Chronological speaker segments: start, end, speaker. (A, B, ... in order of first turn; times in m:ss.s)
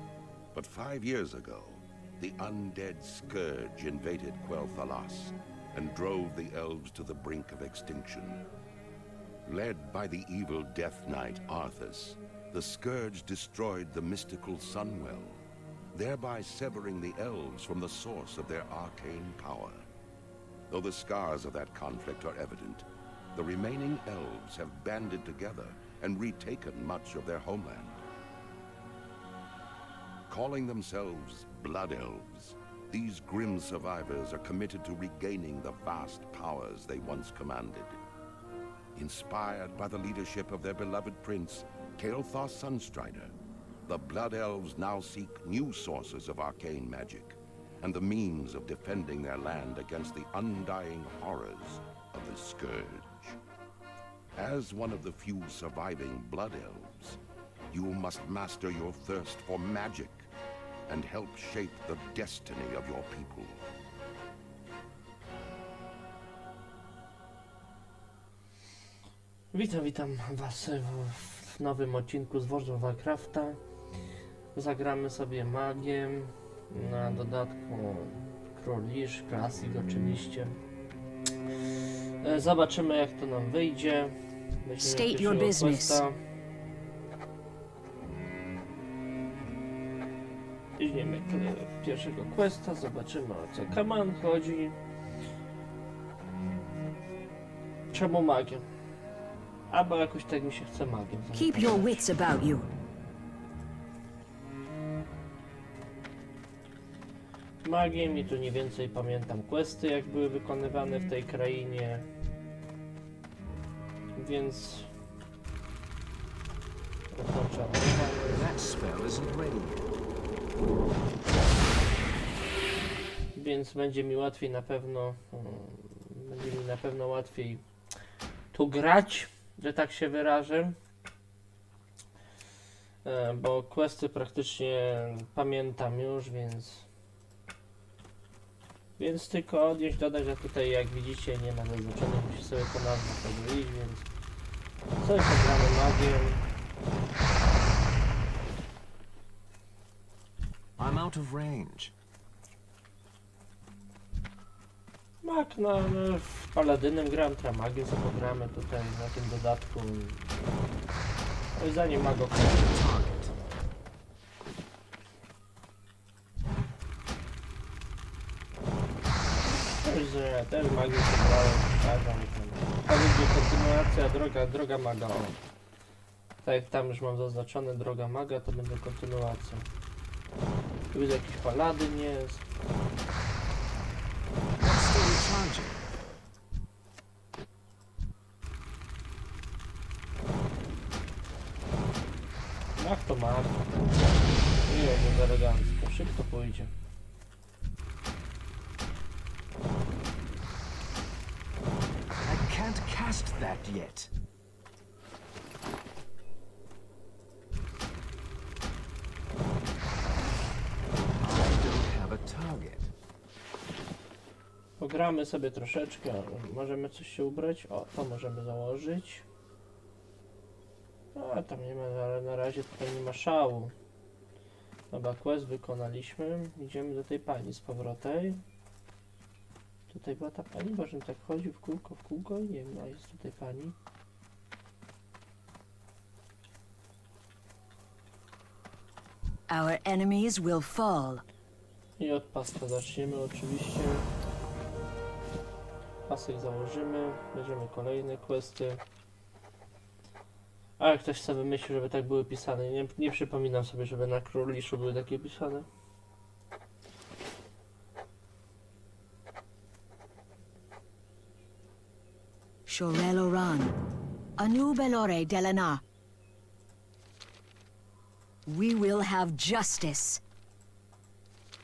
0:00.5-0:08.4 A
0:09.4-0:15.4 A
0:15.9-0:19.9 A
0:20.7-0:28.0 A
0:30.3-0:38.0 A
0:39.0-0:43.3 A
0:43.8-0:53.4 A
0:54.4-0:57.2 A
0:57.7-1:00.3 A
1:00.9-1:03.6 A
1:09.5-1:13.6 B
1:14.5-1:20.5 B
1:22.2-1:26.2 B
1:24.8-1:26.0 C
1:30.8-1:34.8 B
1:37.9-1:38.6 B
1:39.7-1:42.0 B
1:41.3-1:42.7 C
1:47.6-1:52.0 B
1:54.1-1:54.9 B
1:57.1-1:58.5 B
1:58.3-1:59.9 D
2:03.3-2:07.6 B
2:08.5-2:10.7 B
2:13.0-2:16.9 B
2:19.0-2:24.1 B
2:25.0-2:26.4 B
2:30.8-2:31.9 D
2:35.2-2:40.3 B
2:41.6-2:42.7 B
2:42.3-2:43.3 D
2:49.6-2:55.4 B
2:56.4-2:59.7 B
3:00.9-3:02.4 B
3:04.6-3:05.8 D
3:12.8-3:13.9 B
3:14.6-3:16.7 B
3:22.2-3:24.1 D
3:31.2-3:32.9 D
3:34.8-3:39.2 B
3:41.1-3:43.7 B
3:44.9-3:48.4 B
3:49.9-3:53.8 B
3:59.5-4:01.2 C
4:02.0-4:04.1 B
4:06.1-4:08.8 B
4:10.8-4:15.6 B
4:22.6-4:23.8 C
4:24.4-4:25.8 C
4:28.4-4:30.2 C